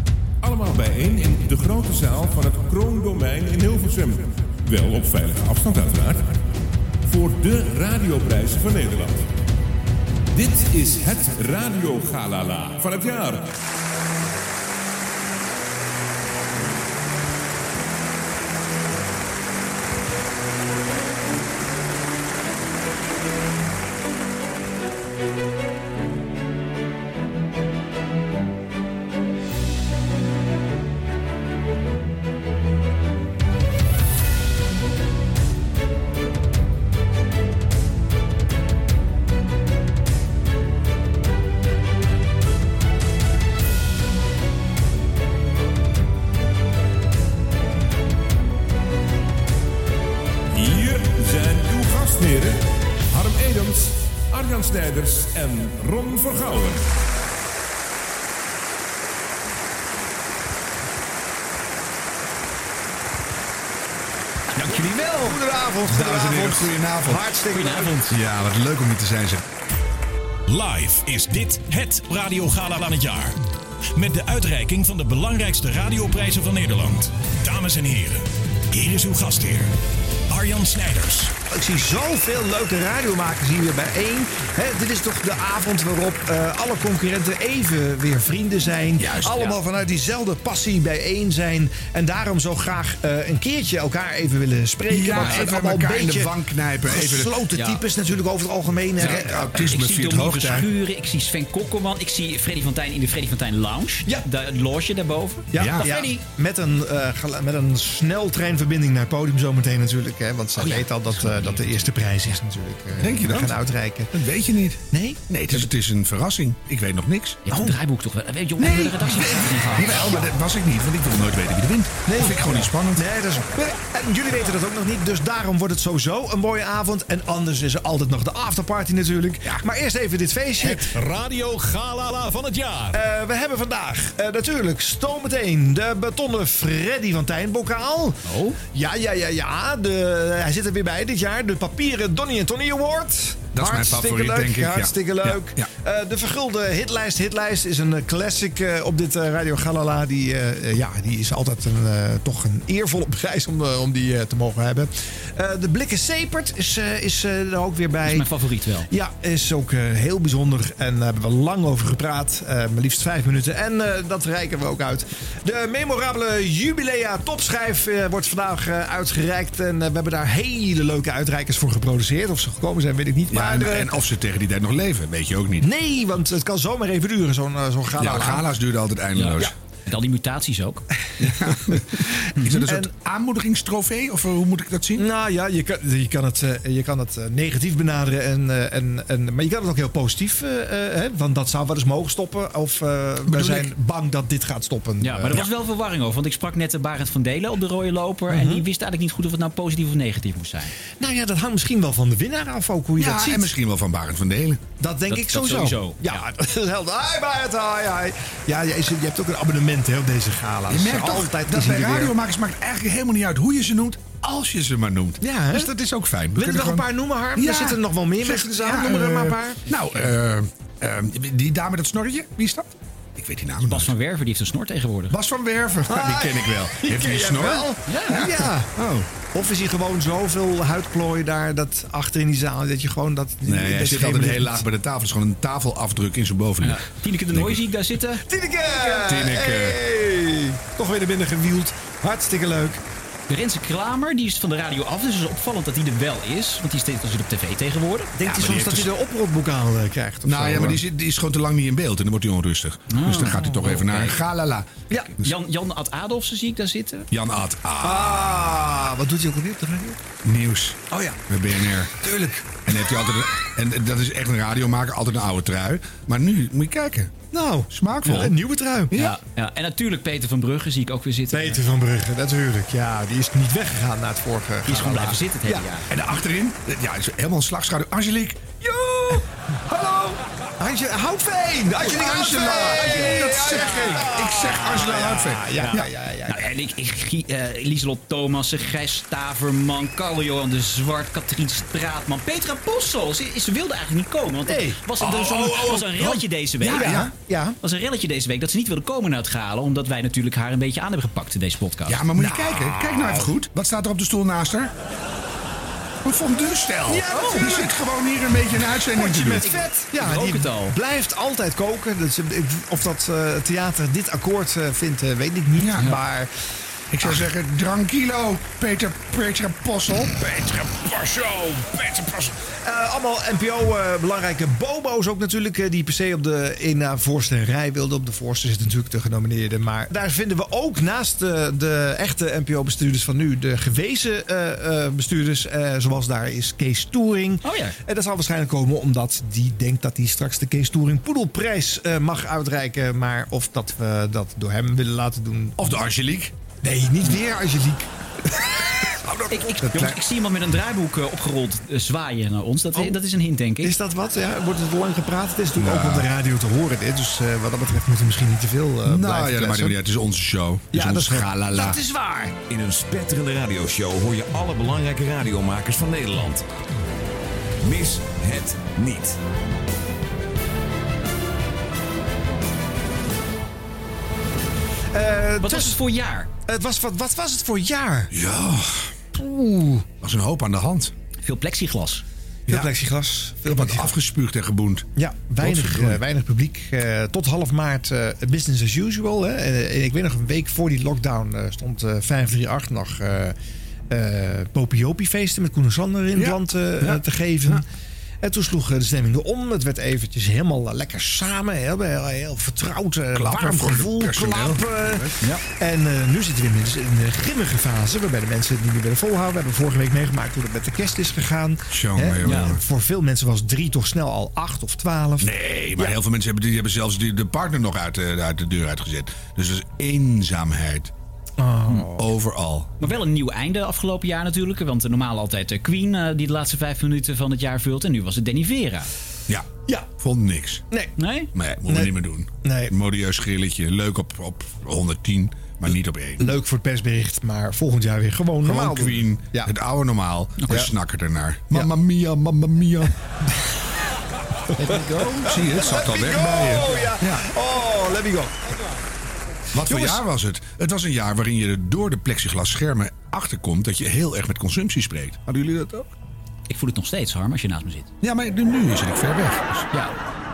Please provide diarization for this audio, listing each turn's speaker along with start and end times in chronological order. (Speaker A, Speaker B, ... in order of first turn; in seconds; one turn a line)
Speaker A: 0.4-6.4
Speaker A: 7.1-9.3
Speaker A: 10.3-13.5
Speaker A: 50.5-56.9
Speaker B: 64.5-65.4
Speaker C: 65.1-68.0
Speaker D: 65.8-67.3
Speaker B: 67.5-68.2
Speaker D: 68.1-69.4
Speaker E: 70.5-73.4
Speaker E: 73.9-79.7
Speaker E: 80.3-81.3
Speaker C: 81.5-96.3
Speaker D: 89.0-89.5
Speaker D: 94.9-97.4
Speaker C: 96.9-99.5
Speaker B: 97.5-97.8
Speaker D: 99.0-100.7
Speaker B: 99.0-106.2
Speaker C: 105.5-114.1
Speaker D: 105.5-105.9
Speaker B: 110.6-112.3
Speaker D: 113.0-113.6
Speaker D: 114.1-117.4
Speaker C: 114.9-115.2
Speaker B: 117.5-120.2
Speaker C: 117.5-117.8
Speaker D: 118.6-123.0
Speaker C: 122.1-130.9
Speaker E: 130.6-133.0
Speaker C: 132.9-158.3
Speaker B: 138.3-138.6
Speaker D: 143.5-145.7
Speaker B: 158.1-158.9
Speaker C: 158.9-173.9
Speaker D: 173.3-175.7
Speaker C: 175.6-178.4
Speaker D: 178.0-179.5
Speaker B: 179.2-180.8
Speaker D: 181.2-181.9
Speaker D: 182.4-185.1
Speaker C: 182.6-182.9
Speaker C: 185.0-195.4
Speaker D: 193.3-193.7
Speaker B: 195.0-200.7
Speaker C: 198.3-198.6
Speaker C: 201.0-203.5
Speaker D: 203.0-204.6
Speaker C: 204.8-212.2
Speaker B: 205.1-206.2
Speaker D: 210.7-223.9
Speaker C: 215.2-215.8
Speaker C: 216.3-219.6
Speaker B: 223.6-225.2
Speaker D: 225.1-229.1
Speaker C: 225.9-228.7
Speaker B: 227.9-228.2
Speaker C: 229.3-234.6
Speaker D: 233.4-237.6
Speaker B: 236.6-239.0
Speaker C: 238.3-242.8
Speaker D: 238.9-239.8
Speaker B: 243.3-248.7
Speaker C: 248.2-250.8
Speaker D: 248.2-248.9
Speaker D: 250.2-255.3
Speaker B: 252.9-254.2
Speaker B: 254.9-257.1
Speaker D: 257.1-258.4
Speaker C: 257.8-260.0
Speaker D: 260.2-261.9
Speaker C: 262.0-262.4
Speaker D: 262.7-267.1
Speaker C: 267.3-268.9
Speaker D: 267.7-268.4
Speaker D: 268.9-269.2
Speaker B: 268.9-271.6
Speaker C: 271.3-275.7
Speaker B: 274.6-275.9
Speaker D: 275.9-280.0
Speaker C: 280.6-286.4
Speaker D: 281.8-285.9
Speaker B: 282.8-283.9
Speaker B: 285.6-297.1
Speaker C: 294.5-294.8
Speaker D: 295.0-297.1
Speaker C: 296.6-297.6
Speaker B: 297.6-302.0
Speaker D: 301.9-304.7
Speaker C: 302.2-303.3
Speaker D: 306.0-309.5
Speaker C: 306.9-307.7
Speaker B: 307.1-307.4
Speaker C: 308.9-316.3
Speaker B: 309.4-310.8
Speaker D: 315.6-315.9
Speaker D: 316.9-322.3
Speaker C: 322.6-345.6
Speaker B: 337.4-337.8
Speaker D: 345.6-346.3
Speaker C: 346.6-349.5
Speaker B: 349.3-353.7
Speaker D: 349.7-350.0
Speaker C: 353.6-359.8
Speaker D: 355.5-356.1
Speaker D: 358.9-361.8
Speaker C: 360.7-362.4
Speaker F: 362.5-366.5
Speaker F: 367.6-369.2
Speaker C: 374.9-375.8
Speaker B: 375.4-376.3
Speaker C: 376.5-378.1
Speaker D: 378.1-379.2
Speaker D: 379.8-380.9
Speaker B: 381.2-382.0
Speaker D: 382.5-382.7
Speaker C: 382.5-383.9
Speaker D: 383.5-384.9
Speaker C: 385.0-393.4
Speaker D: 385.4-386.0
Speaker C: 393.9-397.7
Speaker D: 396.1-397.6
Speaker C: 398.2-415.9
Speaker D: 403.1-405.1
Speaker D: 411.7-412.6
Speaker B: 412.2-412.6
Speaker D: 415.2-420.9
Speaker C: 421.4-422.1
Speaker D: 421.9-422.8
Speaker B: 422.8-428.9
Speaker D: 429.3-430.6
Speaker B: 431.0-431.3
Speaker D: 431.3-436.4
Speaker C: 431.7-431.9
Speaker C: 432.4-432.7
Speaker C: 436.2-439.5
Speaker D: 438.4-442.9
Speaker B: 444.6-445.3
Speaker D: 444.7-447.3
Speaker C: 445.2-448.4
Speaker D: 449.5-455.9
Speaker C: 449.7-450.0
Speaker B: 456.5-457.9
Speaker D: 458.0-459.7